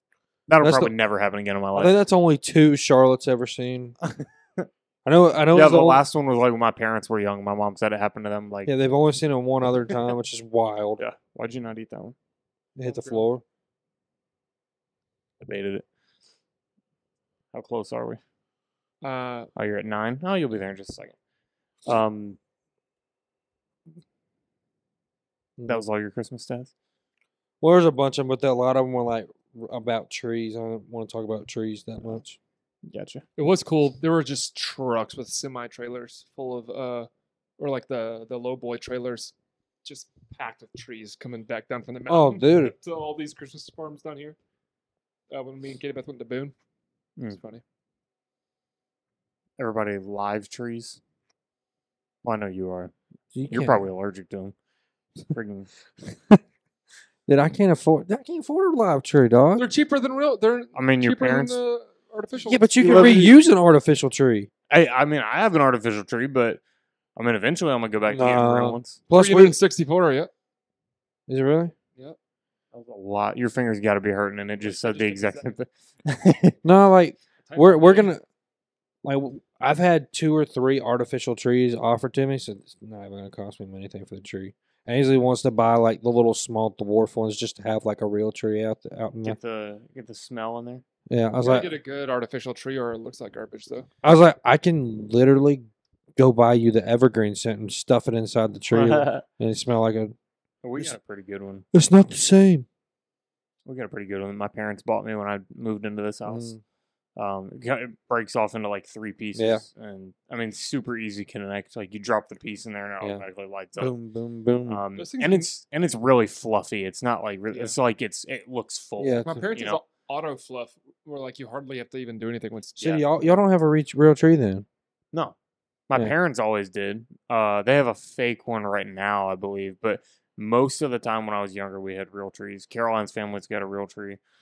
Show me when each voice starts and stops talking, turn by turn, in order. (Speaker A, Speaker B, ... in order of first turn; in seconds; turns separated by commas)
Speaker A: 0.5-1.9, Speaker B: 0.6-0.9, Speaker B: 1.7-3.9, Speaker A: 4.0-4.7, Speaker B: 5.0-6.0, Speaker A: 5.5-8.7, Speaker B: 8.7-11.0, Speaker A: 11.0-12.1, Speaker B: 12.8-13.4, Speaker C: 12.8-13.2, Speaker A: 15.4-15.8, Speaker A: 17.5-18.2, Speaker C: 19.0-19.5, Speaker A: 19.6-21.1, Speaker A: 21.9-22.4, Speaker A: 25.7-26.7, Speaker B: 27.6-32.4, Speaker A: 32.9-33.2, Speaker C: 33.4-39.3, Speaker C: 39.8-44.4, Speaker B: 42.1-42.7, Speaker C: 45.3-46.5, Speaker C: 47.3-47.6, Speaker A: 49.6-51.0, Speaker A: 52.2-52.9, Speaker B: 53.3-53.9, Speaker A: 53.5-54.5, Speaker A: 55.3-55.7, Speaker B: 56.0-56.4, Speaker B: 57.3-59.7, Speaker C: 59.6-63.3, Speaker A: 60.7-61.6, Speaker B: 62.4-64.5, Speaker A: 62.8-63.3, Speaker A: 64.7-66.6, Speaker A: 67.2-69.0, Speaker B: 68.1-69.5, Speaker C: 69.1-70.3, Speaker B: 71.3-71.7, Speaker A: 72.7-76.5, Speaker C: 74.6-75.5, Speaker B: 76.6-78.2, Speaker C: 77.5-78.1, Speaker B: 79.0-89.4, Speaker A: 89.2-90.8, Speaker B: 91.1-91.7, Speaker C: 91.4-93.9, Speaker B: 94.0-95.6, Speaker B: 96.2-100.1, Speaker A: 98.7-99.2, Speaker A: 100.6-101.7, Speaker B: 101.7-102.7, Speaker A: 103.7-106.5, Speaker B: 106.3-106.6, Speaker A: 107.2-113.9, Speaker B: 109.3-109.6, Speaker B: 113.8-114.8, Speaker A: 114.7-119.8, Speaker C: 115.0-115.5, Speaker C: 117.5-117.8, Speaker B: 119.0-119.5, Speaker C: 119.2-123.0, Speaker B: 122.8-124.7, Speaker A: 125.9-134.2